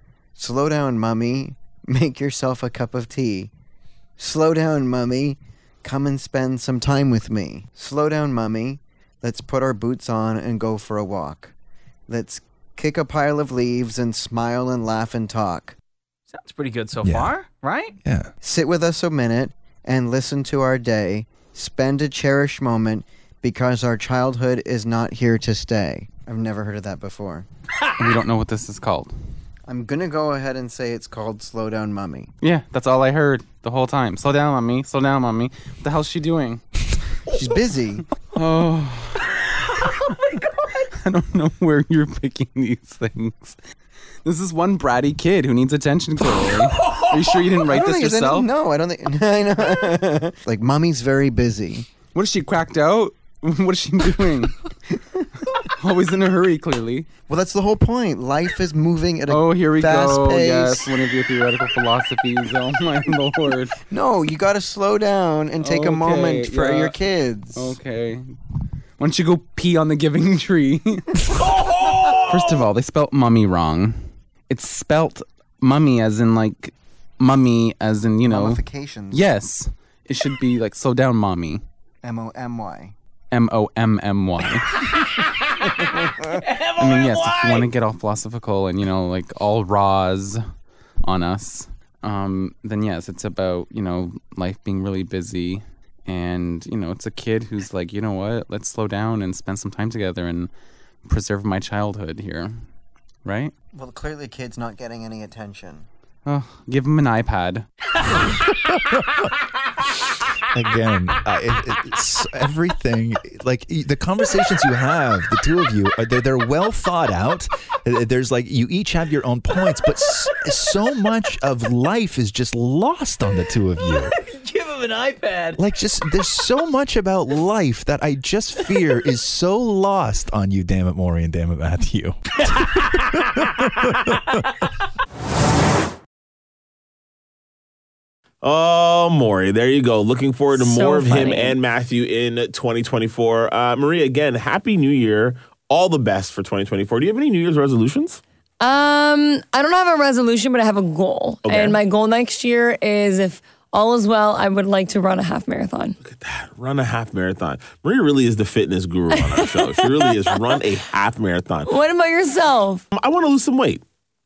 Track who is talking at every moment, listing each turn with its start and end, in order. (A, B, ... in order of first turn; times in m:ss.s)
0:00.4-0:03.5 A
0:04.2-0:11.5 A
0:12.1-0:15.7 A
0:16.3-0:18.0 B
0:17.0-0:17.3 C
0:18.0-0:18.3 C
0:18.4-0:27.5 A
0:28.0-0:29.1 D
0:29.7-0:32.3 A
0:32.4-0:36.6 D
0:37.3-0:38.0 A
0:38.3-0:39.3 D
0:41.0-0:43.6 D
0:44.2-0:48.5 D
0:47.7-0:52.0 A
0:52.1-0:54.6 D
0:55.6-0:57.1 D
0:57.3-1:00.9 A
0:59.3-1:03.8 D
1:03.9-1:07.8 A
1:05.6-1:07.0 D
1:07.5-1:08.3 D
1:09.0-1:21.6 D
1:18.2-1:19.3 A
1:22.0-1:22.9 A
1:23.3-1:24.8 D
1:25.8-1:27.7 B
1:26.8-1:30.4 D
1:31.0-1:40.5 D
1:41.0-1:42.6 D
1:43.2-1:43.5 D
1:43.7-1:45.9 A
1:46.2-1:47.6 D
1:48.7-1:49.0 C
1:50.5-2:04.1 C
2:03.8-2:05.6 B
2:05.6-2:14.1 C
2:12.5-2:13.4 B
2:18.4-2:28.2 E
2:20.5-2:21.6 F
2:28.6-2:36.0 F
2:31.4-2:31.8 E
2:36.0-2:41.7 E
2:39.1-2:40.2 F
2:41.7-2:42.8 F
2:42.9-2:43.8 E